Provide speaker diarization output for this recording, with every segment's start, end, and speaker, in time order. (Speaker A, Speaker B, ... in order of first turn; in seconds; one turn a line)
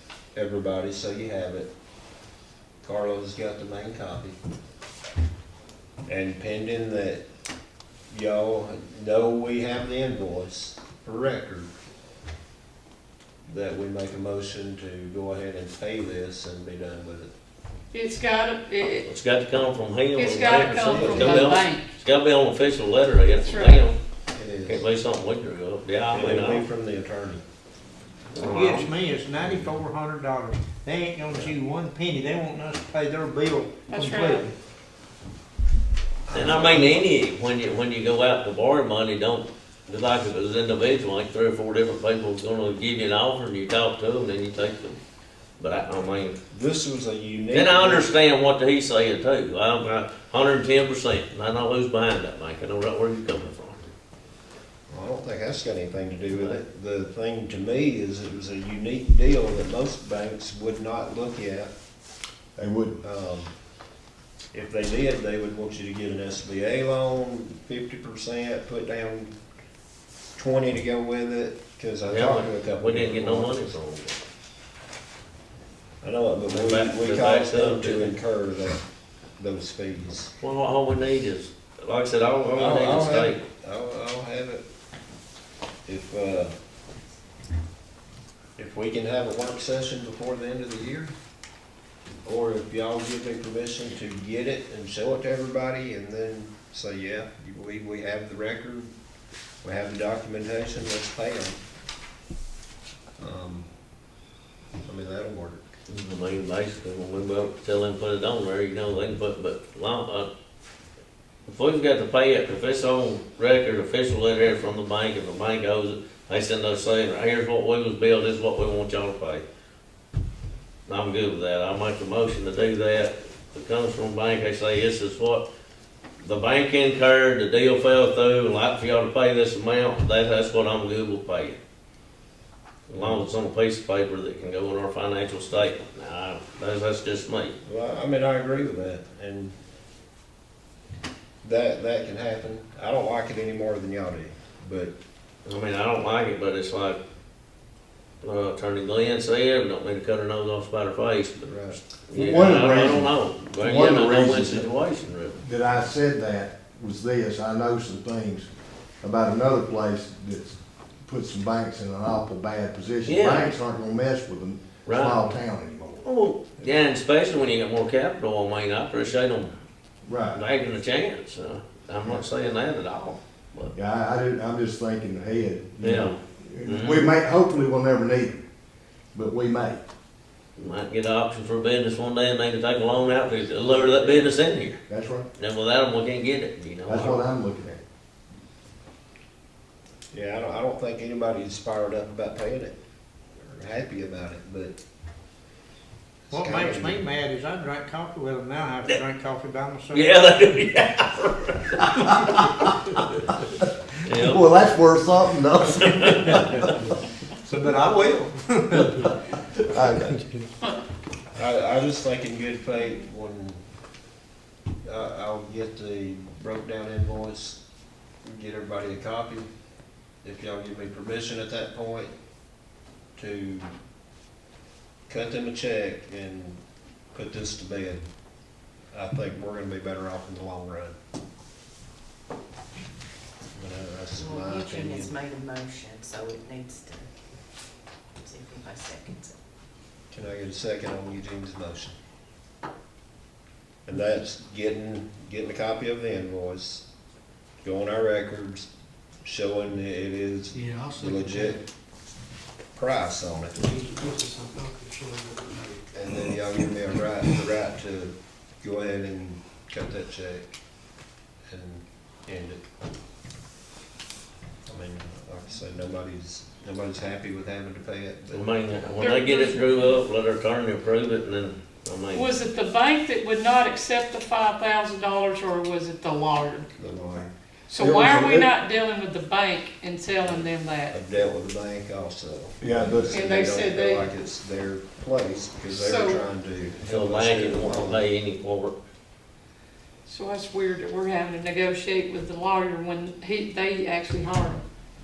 Speaker A: 0.3-1.7
Speaker A: 2.8-4.4
Speaker A: 6.1-7.2
Speaker A: 8.1-11.7
Speaker A: 13.5-17.3
Speaker B: 17.9-19.1
Speaker C: 19.1-24.0
Speaker B: 20.1-21.9
Speaker A: 20.4-21.6
Speaker B: 23.4-23.9
Speaker A: 24.3-24.8
Speaker C: 24.7-26.7
Speaker A: 26.1-27.4
Speaker C: 28.3-28.9
Speaker D: 28.4-34.5
Speaker B: 33.9-34.5
Speaker A: 36.3-37.0
Speaker C: 36.3-45.0
Speaker C: 45.6-46.4
Speaker A: 46.5-48.1
Speaker C: 47.5-53.9
Speaker A: 54.9-61.7
Speaker C: 56.3-56.6
Speaker E: 62.6-63.0
Speaker A: 63.0-63.5
Speaker A: 64.5-69.3
Speaker A: 70.3-73.7
Speaker C: 72.0-74.2
Speaker A: 76.0-78.8
Speaker C: 76.5-78.2
Speaker A: 79.4-80.3
Speaker C: 80.4-83.4
Speaker A: 82.5-84.6
Speaker A: 85.9-86.5
Speaker A: 88.6-91.1
Speaker A: 92.2-98.9
Speaker A: 99.6-101.6
Speaker A: 103.2-103.7
Speaker A: 104.8-105.7
Speaker C: 105.9-110.3
Speaker C: 111.5-119.4
Speaker C: 120.9-125.5
Speaker C: 126.2-131.6
Speaker C: 132.9-137.6
Speaker A: 133.0-133.2
Speaker A: 137.6-139.6
Speaker A: 141.4-144.9
Speaker C: 145.4-147.0
Speaker C: 148.2-155.4
Speaker A: 151.5-151.8
Speaker E: 152.1-154.7
Speaker E: 155.4-158.5
Speaker E: 159.0-166.1
Speaker C: 163.1-163.6
Speaker C: 164.9-165.3
Speaker C: 166.0-169.5
Speaker E: 170.1-170.4
Speaker C: 170.3-173.8
Speaker E: 173.8-178.4
Speaker C: 175.8-177.1
Speaker E: 179.1-179.8
Speaker C: 180.6-184.8
Speaker A: 183.7-184.3
Speaker E: 184.9-185.3
Speaker C: 185.4-187.2
Speaker E: 186.9-187.8
Speaker A: 190.1-192.8
Speaker A: 193.4-194.8
Speaker A: 196.3-197.0
Speaker D: 196.3-200.2
Speaker C: 199.9-203.2
Speaker E: 202.0-202.7
Speaker E: 203.6-206.7
Speaker C: 204.1-204.4
Speaker C: 205.8-206.7
Speaker D: 207.4-209.1
Speaker E: 209.6-210.2
Speaker D: 210.0-210.5
Speaker A: 211.3-213.6
Speaker A: 214.8-217.6
Speaker A: 218.2-219.5
Speaker A: 220.2-222.1
Speaker A: 223.2-223.7
Speaker A: 225.1-226.6
Speaker A: 227.1-228.1
Speaker A: 228.9-231.0
Speaker A: 233.6-235.1
Speaker F: 234.1-237.1
Speaker F: 238.2-239.3
Speaker A: 240.1-242.0
Speaker A: 243.9-246.8
Speaker A: 247.6-248.7
Speaker A: 249.2-251.6
Speaker G: 250.5-251.6
Speaker A: 252.8-253.6
Speaker G: 253.6-255.8
Speaker A: 255.9-260.5
Speaker A: 261.5-262.6
Speaker A: 264.7-268.5
Speaker C: 268.3-272.4
Speaker B: 268.9-270.0
Speaker B: 272.1-276.7
Speaker A: 276.8-277.3
Speaker B: 277.7-281.0
Speaker E: 277.8-278.5
Speaker A: 280.2-288.1
Speaker E: 282.6-283.2
Speaker B: 283.1-284.2
Speaker B: 285.7-286.2
Speaker C: 286.8-288.8
Speaker B: 290.1-294.6